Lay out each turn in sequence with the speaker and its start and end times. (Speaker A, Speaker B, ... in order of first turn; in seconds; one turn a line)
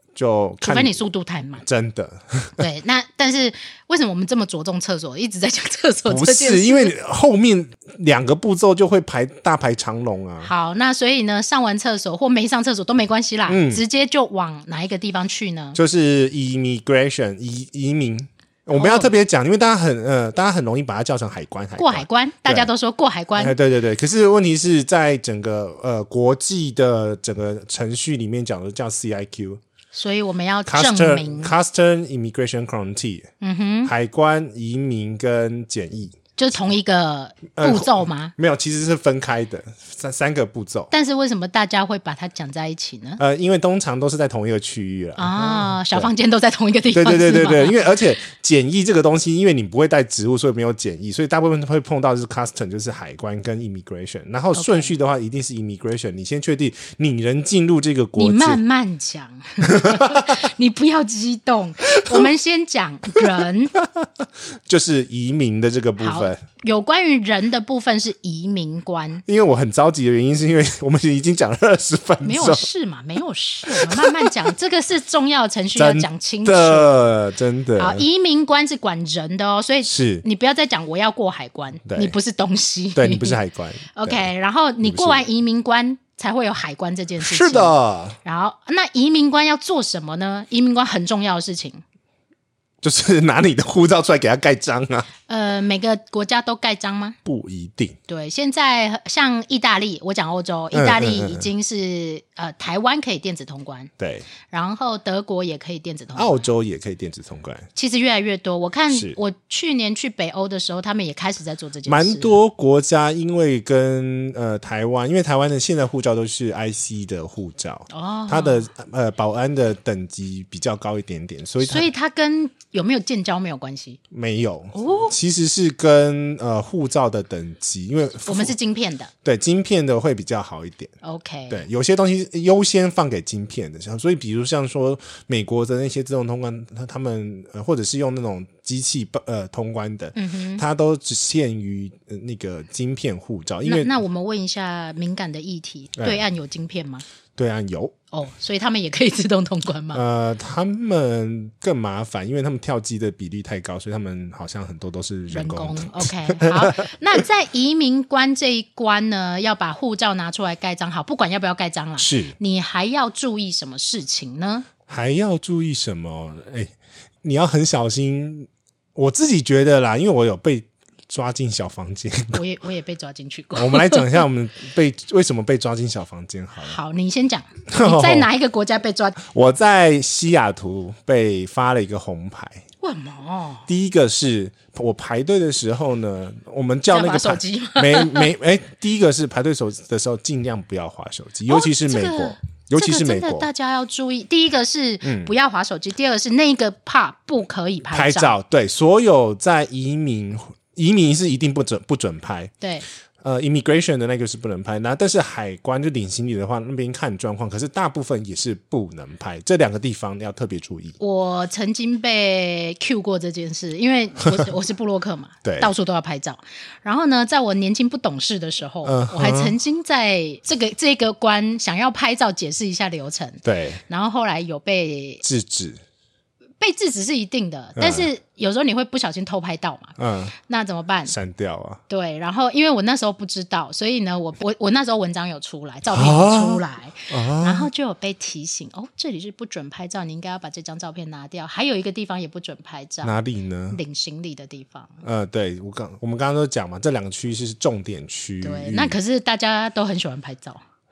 Speaker A: 0.1-1.0
Speaker B: 0.6-1.6
Speaker A: 1.6-2.6
Speaker B: 2.6-6.9
Speaker A: 6.1-10.5
Speaker B: 10.4-15.8
Speaker A: 13.5-13.8
Speaker A: 15.7-22.7
Speaker B: 18.7-19.1
Speaker B: 21.8-23.6
Speaker A: 23.4-29.6
Speaker B: 29.9-31.5
Speaker A: 30.7-33.3
Speaker B: 33.4-33.9
Speaker A: 33.9-36.2
Speaker B: 36.4-38.3
Speaker A: 37.6-40.9
Speaker B: 40.9-43.2
Speaker A: 43.2-46.1
Speaker B: 45.2-47.9
Speaker A: 46.9-58.6
Speaker B: 54.5-54.9
Speaker B: 58.2-63.8
Speaker A: 59.6-60.4
Speaker A: 62.0-62.3
Speaker A: 63.8-66.4
Speaker B: 66.0-69.2
Speaker A: 69.2-72.7
Speaker B: 72.2-77.1
Speaker A: 73.7-74.5
Speaker A: 75.8-78.0
Speaker B: 77.8-83.4
Speaker A: 79.8-80.2
Speaker A: 81.9-82.2
Speaker A: 83.0-84.3
Speaker B: 83.9-91.8
Speaker A: 84.8-85.2
Speaker A: 87.2-88.2
Speaker A: 92.8-95.1
Speaker B: 95.3-97.2
Speaker A: 97.2-98.0
Speaker B: 98.1-103.9
Speaker A: 100.7-101.5
Speaker A: 104.0-104.3
Speaker B: 104.5-106.5
Speaker A: 106.2-107.7
Speaker B: 107.8-112.3
Speaker A: 108.9-109.2
Speaker A: 111.8-121.9
Speaker B: 117.9-118.7
Speaker B: 121.6-124.0
Speaker A: 124.1-128.5
Speaker B: 124.7-125.1
Speaker B: 128.2-129.1
Speaker A: 129.2-130.9
Speaker B: 131.0-131.6
Speaker A: 131.5-143.9
Speaker B: 140.2-140.6
Speaker B: 143.6-147.0
Speaker A: 146.0-146.2
Speaker A: 147.3-147.9
Speaker B: 148.1-150.0
Speaker A: 149.9-157.2
Speaker B: 155.3-164.7
Speaker A: 162.0-162.3
Speaker A: 164.8-172.4
Speaker B: 172.3-174.2
Speaker A: 173.5-176.8
Speaker B: 176.6-179.2
Speaker A: 177.7-178.3
Speaker A: 179.2-182.6
Speaker B: 182.8-183.7
Speaker A: 183.7-193.5
Speaker B: 186.9-188.3
Speaker B: 191.5-198.3
Speaker A: 195.0-195.3
Speaker A: 197.9-202.5
Speaker B: 202.6-202.8
Speaker A: 203.2-210.9
Speaker B: 211.0-225.2
Speaker A: 215.4-215.7
Speaker A: 218.8-219.5
Speaker A: 223.4-223.8
Speaker A: 225.2-225.8
Speaker B: 226.6-231.1
Speaker A: 227.8-228.1
Speaker A: 230.0-230.3
Speaker A: 231.1-231.8
Speaker B: 231.9-243.1
Speaker A: 235.9-237.7
Speaker A: 243.0-243.8
Speaker B: 243.7-245.0
Speaker A: 245.0-249.0
Speaker B: 248.4-250.6